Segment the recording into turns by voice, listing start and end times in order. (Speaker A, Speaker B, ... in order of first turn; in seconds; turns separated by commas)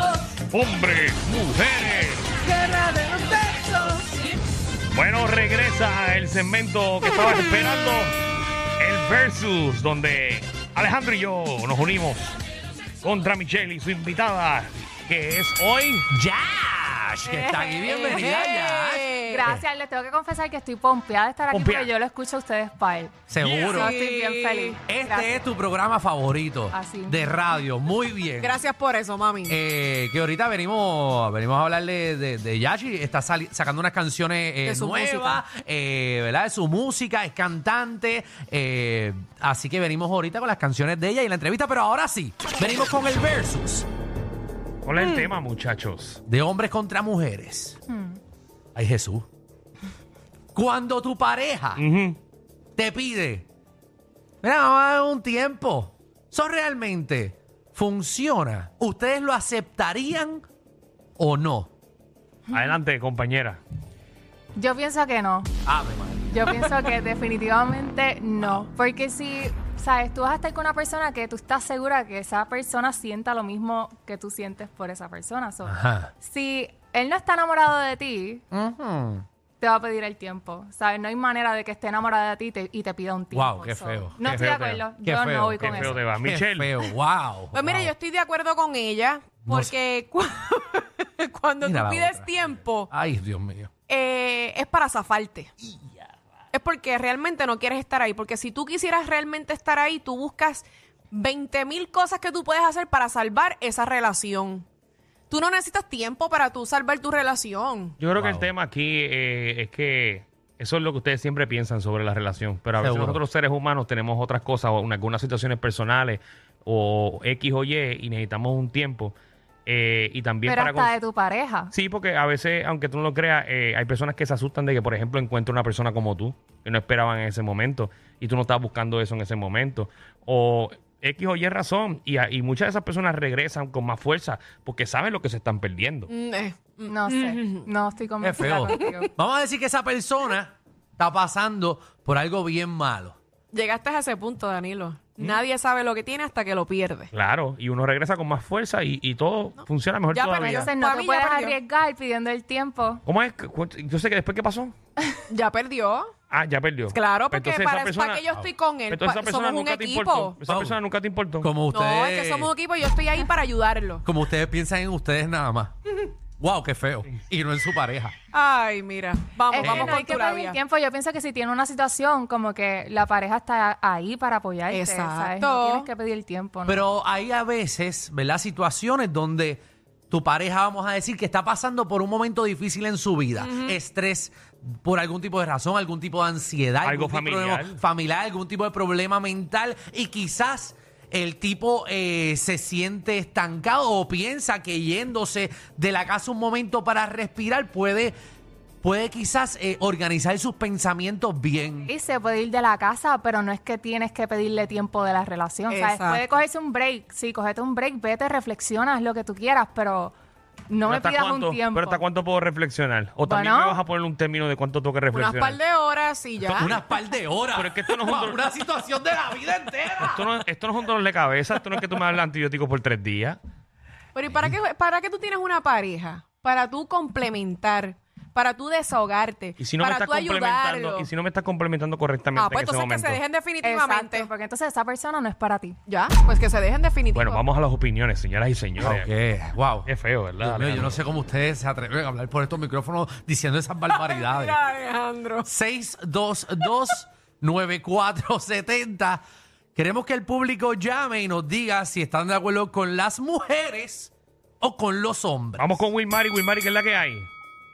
Speaker A: 0.5-2.4, Speaker A: 4.9-8.1, Speaker A: 8.8-12.3, Speaker A: 13.0-16.1, Speaker B: 16.1-19.6, Speaker C: 17.5-19.5, Speaker D: 19.3-23.1, Speaker A: 21.5-21.9, Speaker B: 23.3-23.9, Speaker C: 23.4-24.8, Speaker D: 23.7-25.4, Speaker B: 24.9-28.6, Speaker D: 26.7-27.3, Speaker C: 28.4-29.6, Speaker B: 29.5-43.9, Speaker C: 34.6-35.4, Speaker A: 44.9-46.2, Speaker C: 45.0-45.3, Speaker B: 46.3-47.8, Speaker D: 47.9-48.2, Speaker B: 48.8-49.2, Speaker B: 50.5-51.8, Speaker A: 51.8-52.2, Speaker B: 52.8-53.5, Speaker B: 54.4-60.4, Speaker B: 61.2-61.7, Speaker D: 62.5-62.8, Speaker A: 62.5-63.6, Speaker D: 64.6-65.5, Speaker B: 65.7-66.3, Speaker D: 66.3-78.4, Speaker B: 75.6-76.1, Speaker B: 78.5-79.2, Speaker D: 79.6-86.0, Speaker B: 83.3-87.9, Speaker A: 84.2-84.8, Speaker A: 85.6-86.7, Speaker C: 87.5-92.9, Speaker B: 89.5-89.7, Speaker B: 91.6-93.7, Speaker C: 93.9-95.5, Speaker C: 96.5-104.7, Speaker C: 105.3-108.0, Speaker A: 108.0-119.2, Speaker B: 108.1-108.5, Speaker B: 112.8-113.2, Speaker A: 119.7-121.0, Speaker D: 120.5-121.7, Speaker A: 121.7-136.1, Speaker C: 136.1-137.7, Speaker D: 136.9-139.1, Speaker B: 138.2-143.2, Speaker C: 138.7-139.1, Speaker C: 143.5-147.1, Speaker A: 145.2-145.4, Speaker A: 147.1-150.6, Speaker C: 150.1-151.6, Speaker D: 150.3-153.0, Speaker A: 153.1-154.7, Speaker C: 155.3-156.1, Speaker A: 156.3-158.3, Speaker C: 156.9-160.4, Speaker A: 158.9-161.6, Speaker B: 160.4-160.8, Speaker B: 161.4-162.5, Speaker C: 161.7-164.0, Speaker B: 164.0-168.2, Speaker C: 168.3-170.6, Speaker D: 169.5-176.9, Speaker B: 169.6-170.0, Speaker C: 174.7-175.9, Speaker B: 176.7-198.2, Speaker C: 183.4-183.8, Speaker A: 186.8-187.8, Speaker B: 198.8-201.9, Speaker D: 201.9-210.1, Speaker C: 205.7-206.2, Speaker D: 210.7-212.0, Speaker A: 210.9-215.6, Speaker D: 213.2-213.8, Speaker C: 215.1-216.8, Speaker B: 216.4-220.4, Speaker A: 217.6-218.5, Speaker A: 220.0-223.4, Speaker C: 224.2-231.1, Speaker A: 229.6-233.2, Speaker C: 232.4-234.3, Speaker D: 233.6-235.8, Speaker C: 235.9-237.5, Speaker A: 237.1-239.1, Speaker B: 238.8-244.6, Speaker A: 239.9-241.1, Speaker C: 243.9-245.5, Speaker B: 245.5-249.2, Speaker B: 249.8-255.8, Speaker A: 255.6-257.3